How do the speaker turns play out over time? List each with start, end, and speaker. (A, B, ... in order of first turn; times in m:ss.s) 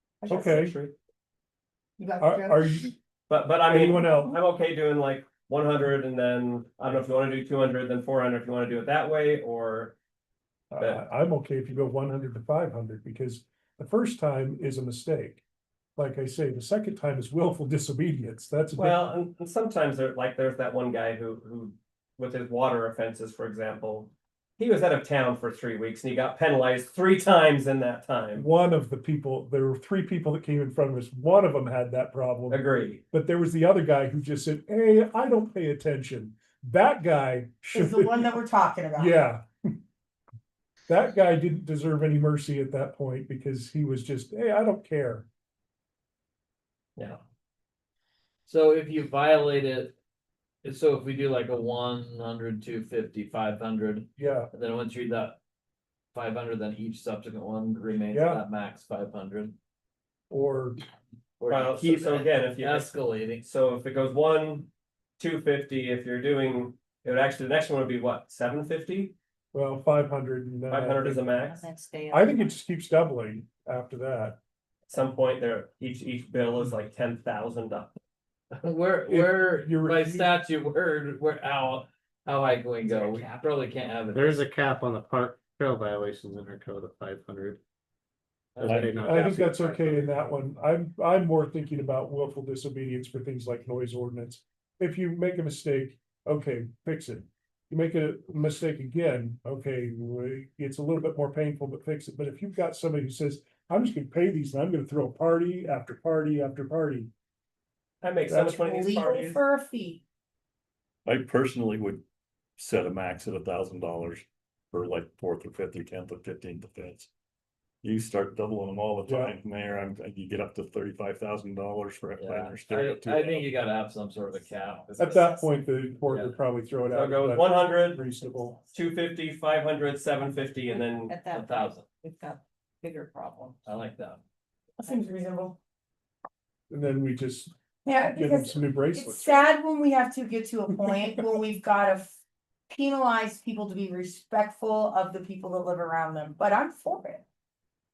0:00.2-0:00.7 A
0:00.3-0:00.9 B
0:00.3-0:00.7 C
0:02.0-0:02.9 A
0:02.2-0:02.9 C
0:03.3-0:10.0 B
0:03.7-0:04.3 C
0:10.7-0:15.4 C
0:16.0-0:19.1 C
0:18.8-0:28.4 B
0:28.3-0:39.8 C
0:32.5-0:33.0 B
0:37.7-0:39.2 A
0:40.9-0:45.3 C
0:48.4-0:49.9 D
0:50.6-0:55.4 D
0:54.2-0:54.5 C
0:56.1-0:59.5 D
0:58.1-0:58.4 C
1:00.3-1:00.8 C
1:01.4-1:03.4 D
1:01.5-1:09.1 B
1:09.5-1:11.3 C
1:10.7-1:11.7 B
1:11.4-1:12.5 E
1:12.1-1:14.4 C
1:14.9-1:17.9 B
1:18.6-1:24.4 D
1:19.1-1:20.3 C
1:23.0-1:23.2 B
1:24.1-1:27.6 F
1:28.5-1:30.5 D
1:28.6-1:29.6 F
1:29.0-1:47.1 C
1:48.0-1:49.4 B
1:48.3-1:48.6 C
1:48.5-1:50.0 A
1:51.0-1:52.0 G
1:52.6-1:57.1 G
1:57.8-2:03.5 G
1:59.1-1:59.4 C
2:02.2-2:05.2 D
2:05.0-2:08.6 C
2:05.0-2:05.5 E
2:06.0-2:06.3 D
2:06.9-2:08.0 B
2:08.7-2:11.1 B
2:10.7-2:13.6 E
2:11.3-2:11.9 D
2:13.6-2:14.2 D
2:14.8-2:15.6 A
2:16.7-2:17.5 C
2:17.8-2:22.2 A
2:18.1-2:19.4 C
2:22.7-2:27.2 A